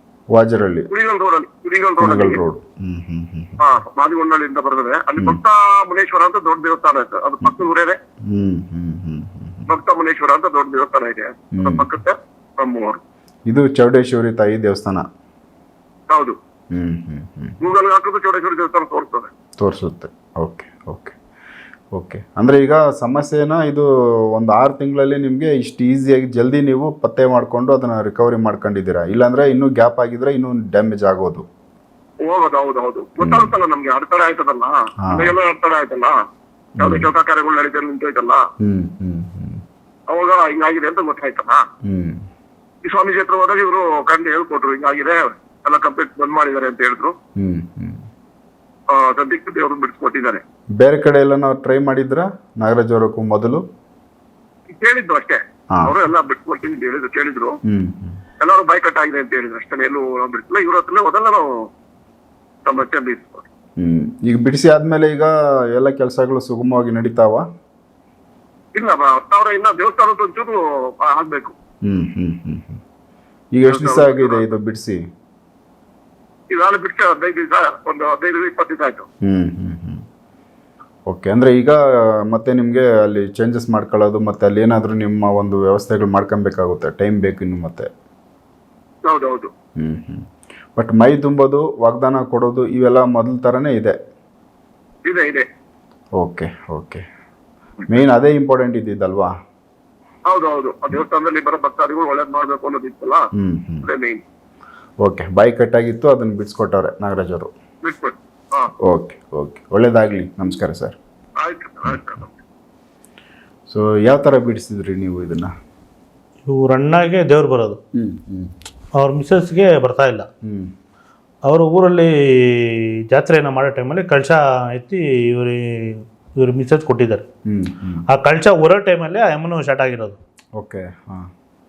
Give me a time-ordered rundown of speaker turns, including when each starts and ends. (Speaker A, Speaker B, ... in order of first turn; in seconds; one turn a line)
Speaker A: 0.3-0.9
Speaker B: 0.9-2.4
Speaker A: 2.0-3.6
Speaker B: 3.6-8.0
Speaker A: 8.3-9.7
Speaker B: 9.7-13.0
Speaker A: 11.6-11.9
Speaker A: 13.5-15.1
Speaker B: 16.1-16.4
Speaker A: 16.7-17.6
Speaker B: 17.6-19.3
Speaker A: 19.6-21.2
Speaker A: 21.9-31.4
Speaker B: 32.3-36.1
Speaker A: 33.2-33.5
Speaker A: 35.0-35.4
Speaker A: 36.8-37.1
Speaker B: 36.8-38.4
Speaker A: 38.6-39.6
Speaker B: 40.1-41.6
Speaker A: 41.8-42.2
Speaker B: 42.9-47.1
Speaker A: 47.4-48.0
Speaker B: 48.9-50.4
Speaker A: 50.8-53.6
Speaker B: 54.7-57.5
Speaker A: 57.6-58.2
Speaker B: 58.4-61.5
Speaker B: 62.7-63.5
Speaker A: 63.8-67.5
Speaker B: 68.8-71.5
Speaker A: 71.8-72.8
Speaker A: 73.5-75.0
Speaker B: 73.7-74.5
Speaker B: 76.5-79.1
Speaker A: 79.2-80.0
Speaker A: 81.1-87.9
Speaker B: 89.1-89.5
Speaker A: 89.8-90.2
Speaker A: 90.8-94.0
Speaker B: 95.1-95.5
Speaker A: 96.2-97.0
Speaker A: 97.9-99.3
Speaker B: 100.3-103.2
Speaker A: 103.3-103.9
Speaker B: 103.8-104.2
Speaker A: 105.0-107.5
Speaker B: 107.8-108.7
Speaker A: 108.8-111.0
Speaker B: 111.4-112.4
Speaker A: 113.7-115.5
Speaker C: 116.5-117.8
Speaker A: 118.0-118.5
Speaker C: 119.0-120.3
Speaker A: 120.4-120.7
Speaker C: 121.5-127.2
Speaker A: 127.5-128.1
Speaker C: 128.1-130.2
Speaker A: 130.6-131.3